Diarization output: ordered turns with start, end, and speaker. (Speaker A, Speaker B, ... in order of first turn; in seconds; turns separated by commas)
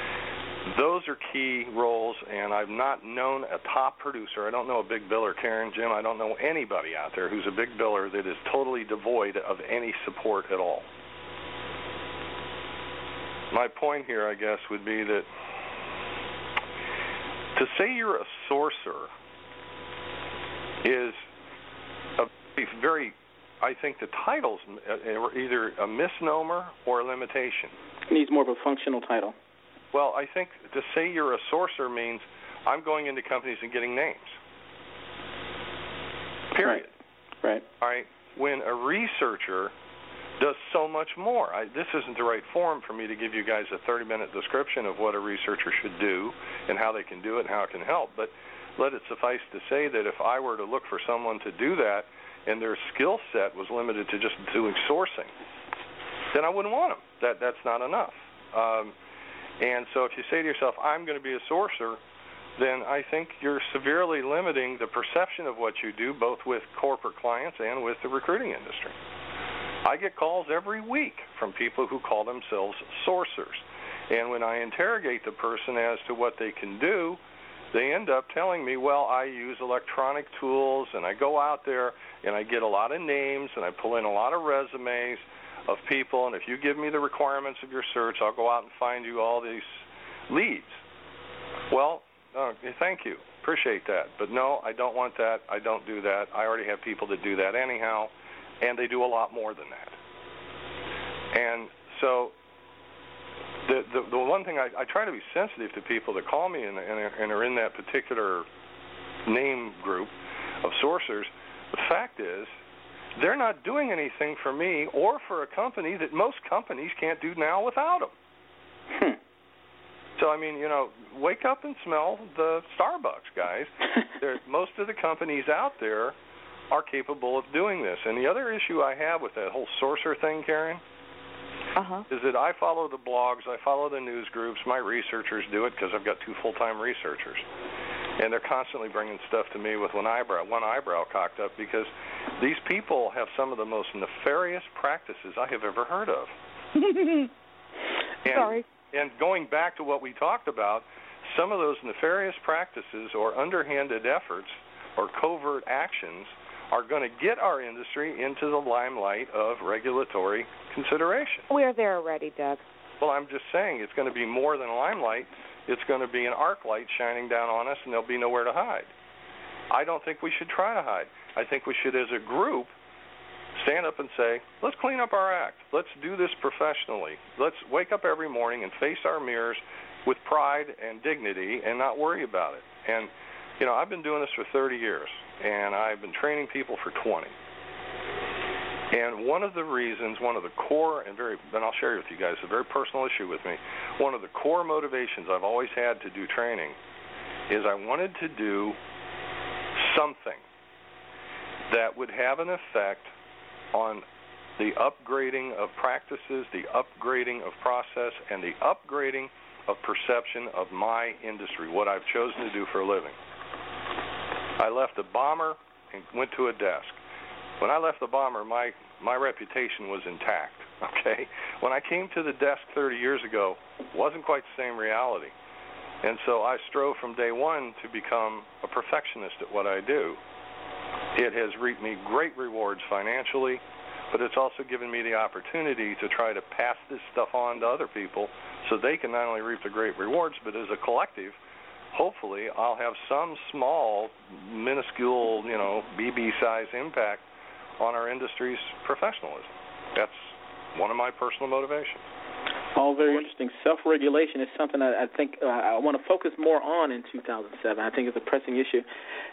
Speaker A: 0.7-10.9, Speaker A: 13.5-15.3, Speaker A: 17.6-19.1, Speaker A: 20.8-21.2, Speaker A: 22.2-27.7, Speaker B: 28.1-29.4, Speaker A: 29.9-34.4, Speaker A: 36.5-36.9, Speaker B: 36.6-36.8, Speaker A: 37.8-39.7, Speaker A: 40.4-55.3, Speaker A: 56.3-58.9, Speaker A: 59.6-62.0, Speaker A: 62.6-69.0, Speaker A: 69.8-77.2, Speaker A: 77.7-90.8, Speaker A: 91.7-100.0, Speaker A: 101.3-102.3, Speaker A: 103.7-108.5, Speaker A: 109.3-112.5, Speaker A: 113.2-118.1, Speaker B: 118.9-119.2, Speaker A: 120.2-126.2, Speaker A: 126.7-130.8, Speaker C: 131.8-132.0, Speaker A: 132.1-137.4, Speaker A: 138.2-146.3, Speaker C: 146.8-147.3, Speaker A: 148.2-161.5, Speaker C: 148.3-148.6, Speaker C: 161.5-162.6, Speaker A: 163.0-168.9, Speaker A: 169.7-172.7, Speaker A: 173.6-187.3, Speaker A: 188.9-196.8, Speaker A: 197.5-198.8, Speaker A: 199.8-200.4, Speaker A: 201.7-203.1, Speaker A: 203.7-204.1, Speaker A: 204.6-213.2, Speaker A: 214.6-217.0, Speaker A: 217.6-225.3, Speaker A: 226.0-230.2, Speaker A: 231.2-233.6, Speaker A: 234.1-241.4, Speaker A: 241.9-247.2, Speaker A: 247.8-252.0, Speaker B: 252.8-258.9